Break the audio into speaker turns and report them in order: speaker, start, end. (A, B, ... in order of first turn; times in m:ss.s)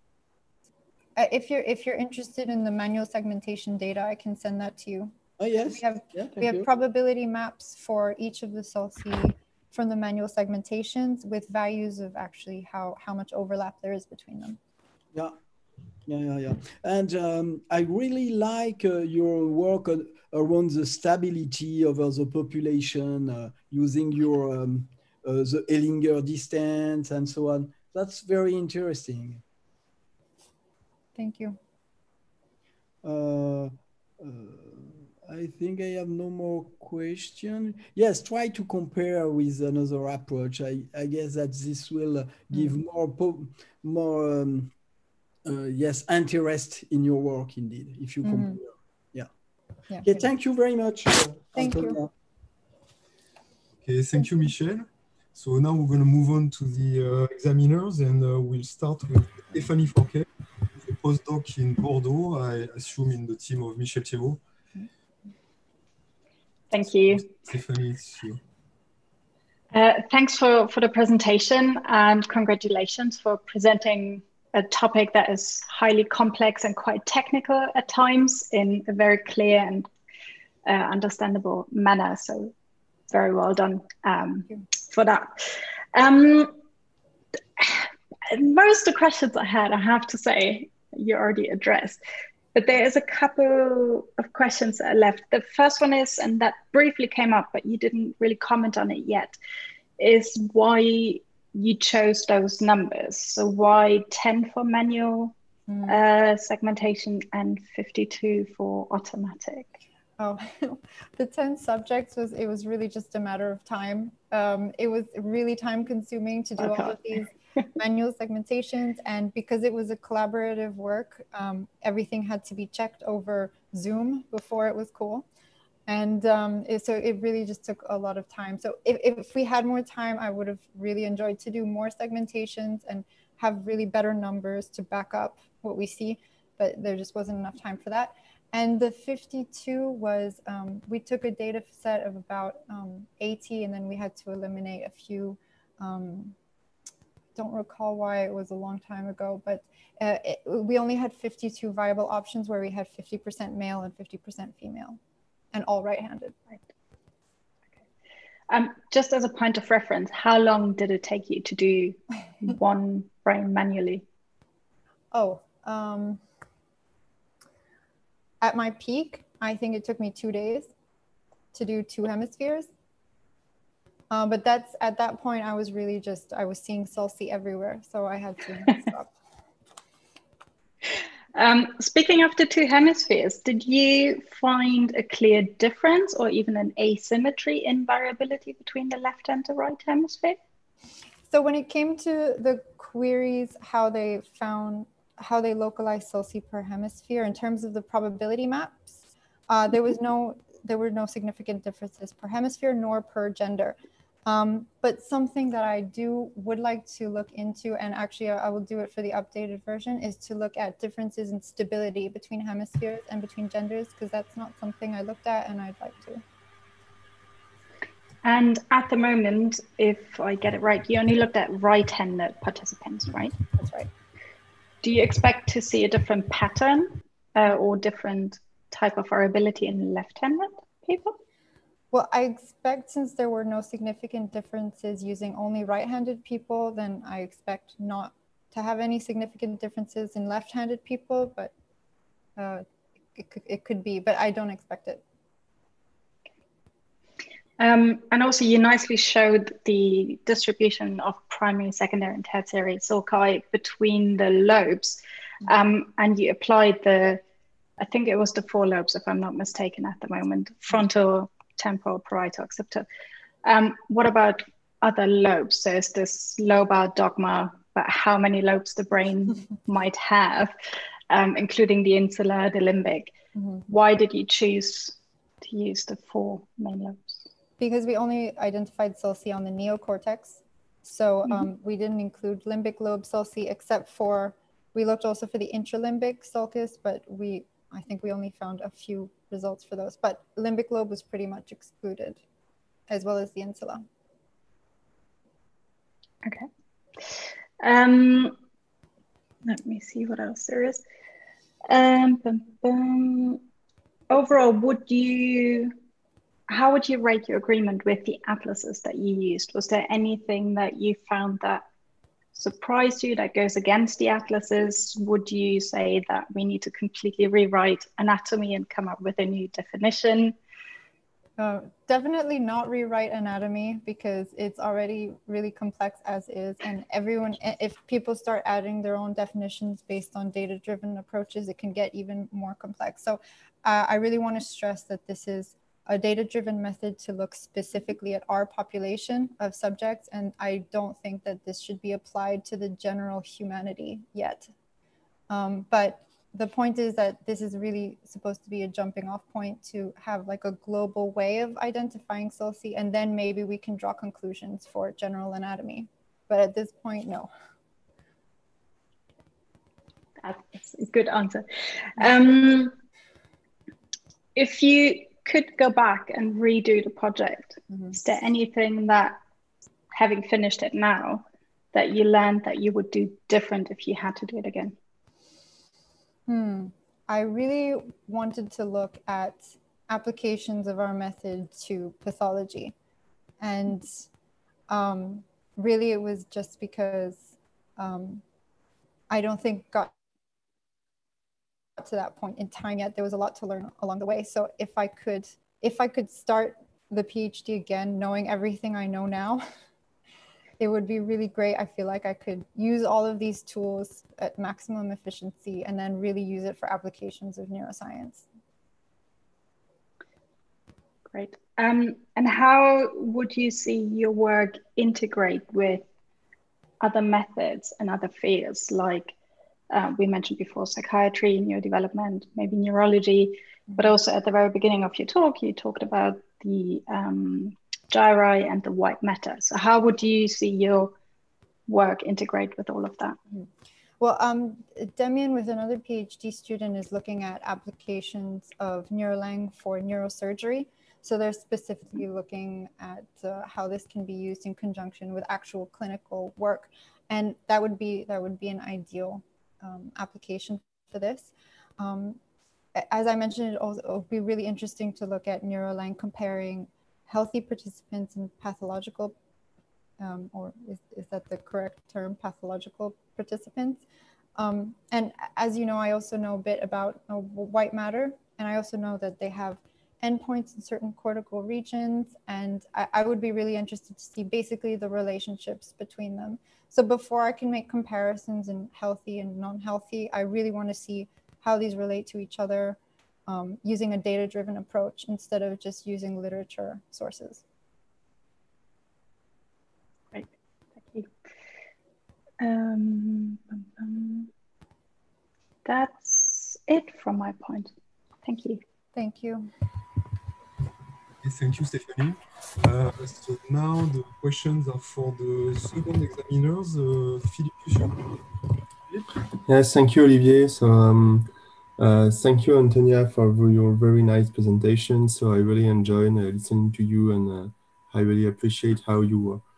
0:01.2-0:05.2 A
0:05.4-0:06.7 B
0:05.7-0:14.6 A
0:16.1-0:29.4 B
0:31.2-0:31.6 A
0:33.0-0:44.7 B
0:45.4-0:49.3 B
0:48.2-0:48.6 A
0:49.9-0:50.3 A
0:50.0-0:52.1 B
0:51.6-0:52.0 A
0:53.8-1:04.4 C
1:06.7-1:07.3 D
1:07.0-1:08.4 C
1:09.7-1:19.9 D
1:20.6-1:22.5 D
1:23.1-1:25.4 D
1:25.9-1:26.6 D
1:27.6-1:32.0 D
1:32.6-1:39.4 D
1:40.0-1:45.3 D
1:45.7-1:46.0 A
1:45.9-1:49.8 D
1:50.2-2:05.3 A
1:56.6-1:57.0 D
2:05.9-2:26.4 A
2:27.4-2:35.0 A
2:35.5-2:36.4 A
2:38.5-2:44.0 D
2:45.1-2:46.2 A
2:48.4-2:50.7 A
2:51.5-2:52.7 A
2:54.1-2:59.1 A
3:01.3-3:10.4 D
3:11.3-3:19.0 A
3:19.5-3:36.2 A
3:38.2-3:43.4 D
3:43.5-3:43.9 A
3:44.8-3:51.2 D
3:51.9-4:01.5 A
4:02.4-4:02.6 A
4:03.2-4:05.0 A
4:07.6-4:17.2 D
4:17.8-4:22.9 D
4:23.4-4:30.5 D
4:31.1-4:33.1 D
4:33.4-4:33.6 A
4:33.7-4:37.2 D
4:37.6-4:52.2 A
4:52.9-4:53.8 A
4:57.0-4:58.4 D
4:59.4-5:00.8 D
5:01.7-5:03.4 D
5:04.1-5:05.7 D
5:06.5-5:11.6 D
5:12.3-5:20.4 D
5:21.4-5:44.5 A
5:45.3-5:57.3 A
6:00.2-6:02.8 D
6:04.4-6:09.2 D
6:07.7-6:08.0 A
6:09.9-6:14.8 D
6:16.3-6:22.7 A
6:23.4-6:23.9 A
6:24.7-6:28.2 A
6:29.1-6:29.9 A
6:31.8-6:39.4 A
6:40.6-6:48.2 A
6:51.1-6:55.8 D
6:56.8-6:59.2 D
6:59.7-7:11.0 D
7:11.7-7:13.2 D
7:14.0-7:32.2 A
7:32.8-7:39.2 A
7:40.0-7:43.8 A
7:44.4-8:07.4 A
8:10.1-8:11.1 D
8:12.4-8:14.3 D
8:15.6-8:17.7 D
8:18.2-8:18.6 D
8:19.0-8:19.5 A
8:21.2-8:28.2 C
8:29.5-8:39.4 E